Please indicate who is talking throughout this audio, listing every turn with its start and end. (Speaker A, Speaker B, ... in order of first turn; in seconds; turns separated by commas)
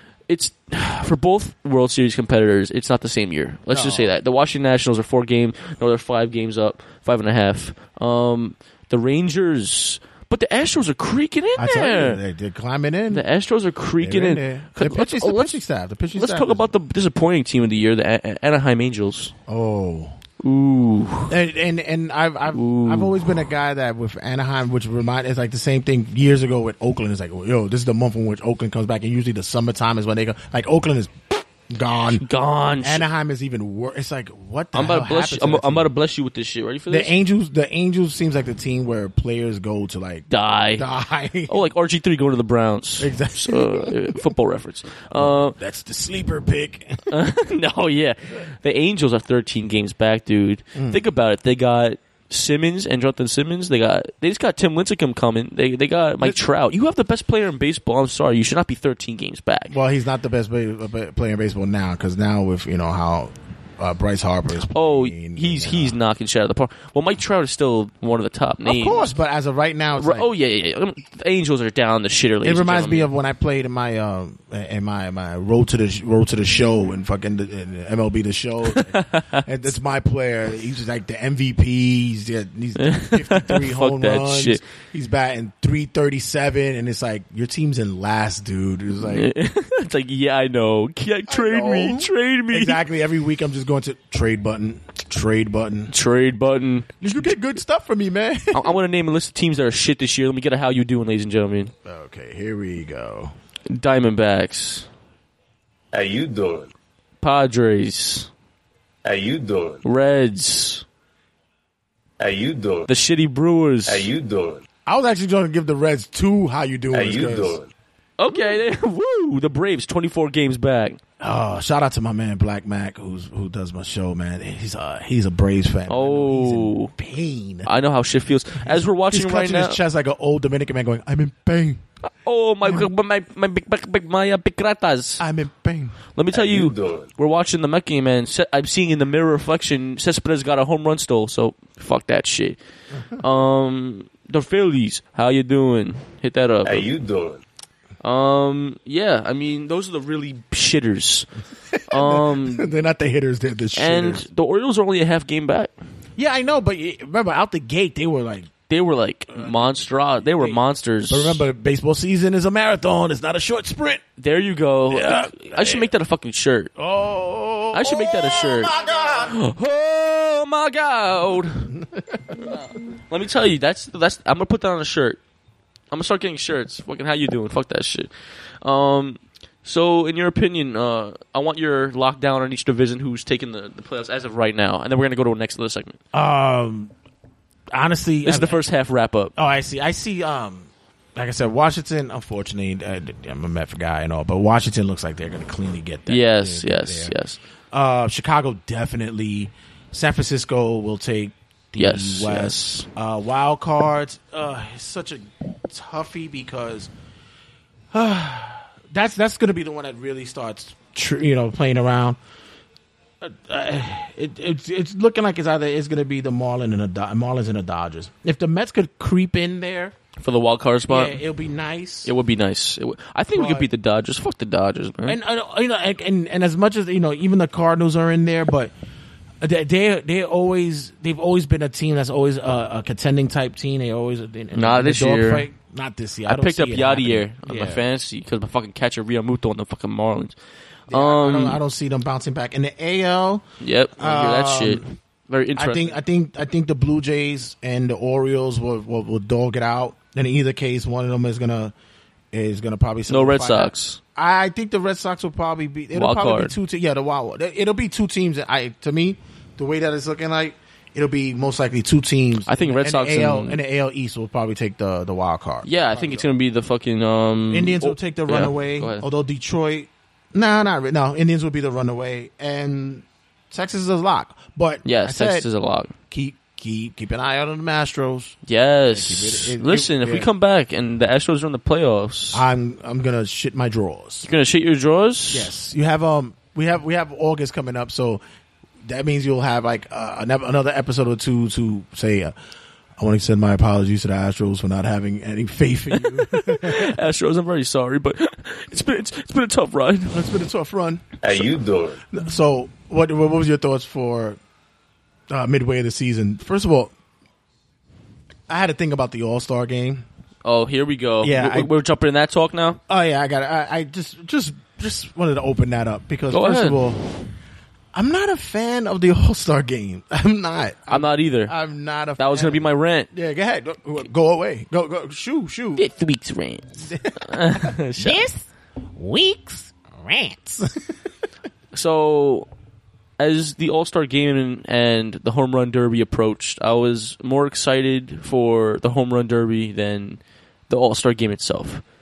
Speaker A: 0.3-12.2, Speaker B: 3.7-4.1, Speaker B: 11.6-13.2, Speaker A: 13.1-15.6, Speaker B: 14.0-16.7, Speaker A: 16.1-19.3, Speaker B: 19.5-20.2, Speaker A: 20.4-21.3, Speaker B: 21.3-32.2, Speaker A: 22.5-23.2, Speaker A: 32.1-33.0, Speaker B: 32.8-35.9, Speaker A: 34.7-37.1, Speaker B: 36.9-41.7, Speaker A: 40.3-40.9, Speaker A: 41.5-45.6, Speaker B: 43.0-44.3, Speaker B: 45.1-47.1, Speaker A: 47.1-59.7, Speaker B: 50.7-51.0, Speaker B: 59.7-66.0, Speaker A: 64.7-69.1, Speaker B: 68.6-70.3, Speaker A: 70.0-73.1, Speaker B: 72.4-89.3, Speaker A: 78.7-79.5, Speaker A: 82.8-84.6, Speaker A: 89.0-92.8, Speaker B: 91.3-95.9, Speaker A: 95.9-97.0, Speaker B: 97.0-98.7, Speaker A: 98.5-101.7, Speaker B: 101.8-103.3, Speaker A: 103.7-104.9, Speaker C: 105.9-106.7, Speaker A: 107.2-108.3, Speaker C: 109.0-109.8, Speaker A: 109.8-110.8, Speaker C: 112.2-112.9, Speaker A: 112.9-114.1, Speaker C: 113.8-114.6, Speaker B: 114.8-117.6, Speaker C: 116.9-117.7, Speaker A: 118.2-121.0, Speaker B: 121.2-127.7, Speaker A: 125.9-126.9, Speaker A: 127.6-129.8, Speaker B: 128.6-131.8, Speaker A: 132.0-135.2, Speaker B: 132.6-132.9, Speaker B: 135.2-136.0, Speaker A: 136.2-142.6, Speaker C: 136.3-137.1, Speaker A: 143.1-146.9, Speaker C: 146.6-147.4, Speaker A: 148.0-151.3, Speaker B: 151.7-154.2, Speaker A: 151.9-152.7, Speaker A: 153.7-155.7, Speaker B: 156.2-158.5, Speaker A: 158.7-161.4, Speaker B: 159.3-164.0, Speaker A: 164.2-166.7, Speaker B: 164.9-165.9, Speaker B: 166.8-169.3, Speaker A: 167.7-171.7, Speaker B: 171.7-172.6, Speaker A: 172.5-175.2, Speaker A: 175.9-178.1, Speaker A: 178.6-186.0, Speaker B: 186.1-186.9, Speaker B: 187.7-188.6, Speaker A: 188.2-189.3, Speaker B: 189.3-197.2, Speaker A: 196.1-197.4, Speaker B: 197.7-206.9, Speaker A: 201.8-202.9, Speaker B: 207.9-212.2, Speaker B: 213.2-219.9, Speaker A: 220.2-221.2, Speaker B: 220.9-222.1, Speaker A: 222.0-225.2, Speaker B: 223.3-223.7, Speaker B: 225.0-228.7, Speaker B: 229.4-237.8, Speaker A: 234.5-235.5, Speaker A: 236.2-240.3, Speaker B: 240.9-243.4, Speaker A: 240.9-241.6, Speaker A: 243.6-246.0, Speaker B: 244.0-244.8, Speaker B: 245.6-251.7, Speaker B: 252.3-266.3, Speaker A: 253.1-254.0, Speaker A: 255.9-256.5, Speaker A: 262.5-263.6, Speaker A: 265.6-269.1, Speaker B: 267.5-275.5, Speaker A: 274.8-275.9, Speaker B: 276.1-280.3, Speaker A: 278.5-282.4, Speaker B: 282.3-284.3, Speaker A: 284.2-285.5, Speaker B: 285.3-288.2, Speaker B: 288.8-292.3, Speaker B: 293.0-297.0, Speaker A: 295.9-300.2, Speaker B: 300.1-301.5, Speaker C: 301.2-302.0, Speaker B: 302.1-304.4, Speaker B: 305.3-306.9, Speaker B: 308.5-310.0, Speaker A: 310.4-312.8, Speaker B: 311.2-311.7, Speaker B: 312.9-317.0, Speaker A: 316.3-317.1, Speaker B: 317.9-325.9, Speaker A: 320.9-321.5, Speaker A: 322.2-323.1, Speaker A: 325.8-328.2, Speaker B: 326.9-330.9, Speaker A: 331.7-332.5, Speaker A: 333.2-341.8